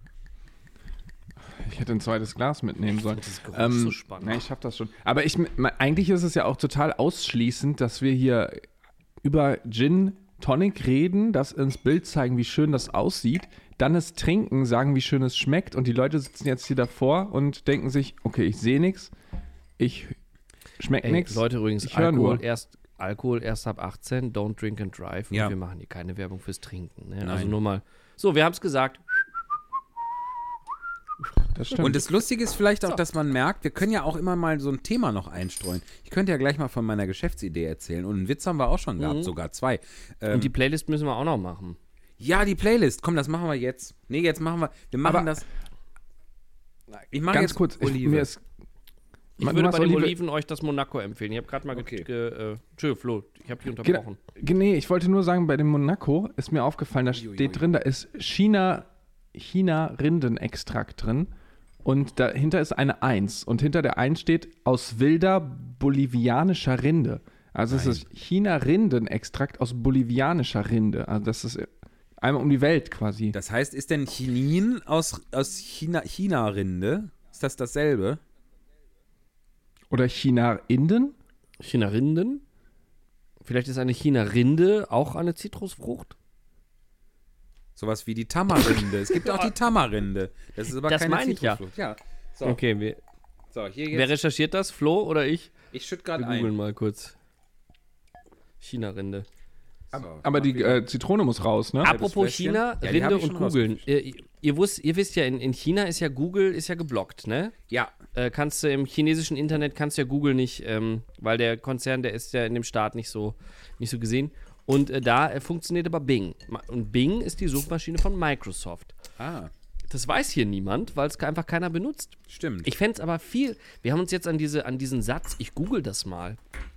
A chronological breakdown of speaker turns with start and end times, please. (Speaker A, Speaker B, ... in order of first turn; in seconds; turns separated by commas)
Speaker A: 1.5-8.7, Speaker B: 3.1-4.4, Speaker A: 9.2-19.1, Speaker A: 19.8-20.2, Speaker A: 20.8-22.4, Speaker B: 21.0-29.3, Speaker C: 27.2-27.6, Speaker A: 31.6-32.1, Speaker C: 31.8-40.5, Speaker B: 39.0-39.3, Speaker B: 40.3-41.8, Speaker C: 42.2-45.5, Speaker A: 45.0-45.3, Speaker C: 47.1-48.3, Speaker A: 47.3-48.4, Speaker B: 49.4-54.2, Speaker A: 49.4-50.2, Speaker C: 51.7-52.1, Speaker A: 53.8-61.3, Speaker C: 57.1-57.6, Speaker A: 61.8-73.4, Speaker C: 67.7-68.0, Speaker C: 73.3-78.2, Speaker A: 79.9-81.2, Speaker B: 81.6-82.4, Speaker B: 83.4-86.2, Speaker C: 87.8-92.6, Speaker B: 88.7-89.5, Speaker B: 90.9-91.6, Speaker B: 92.4-93.0, Speaker C: 93.5-94.1, Speaker B: 93.9-95.5, Speaker C: 95.7-96.5, Speaker B: 96.2-97.2, Speaker B: 98.6-99.3, Speaker C: 99.9-100.8, Speaker A: 100.2-101.9, Speaker C: 101.8-103.8, Speaker B: 101.8-107.5, Speaker B: 108.1-118.9, Speaker C: 119.2-119.5, Speaker B: 119.9-126.4, Speaker C: 122.3-122.7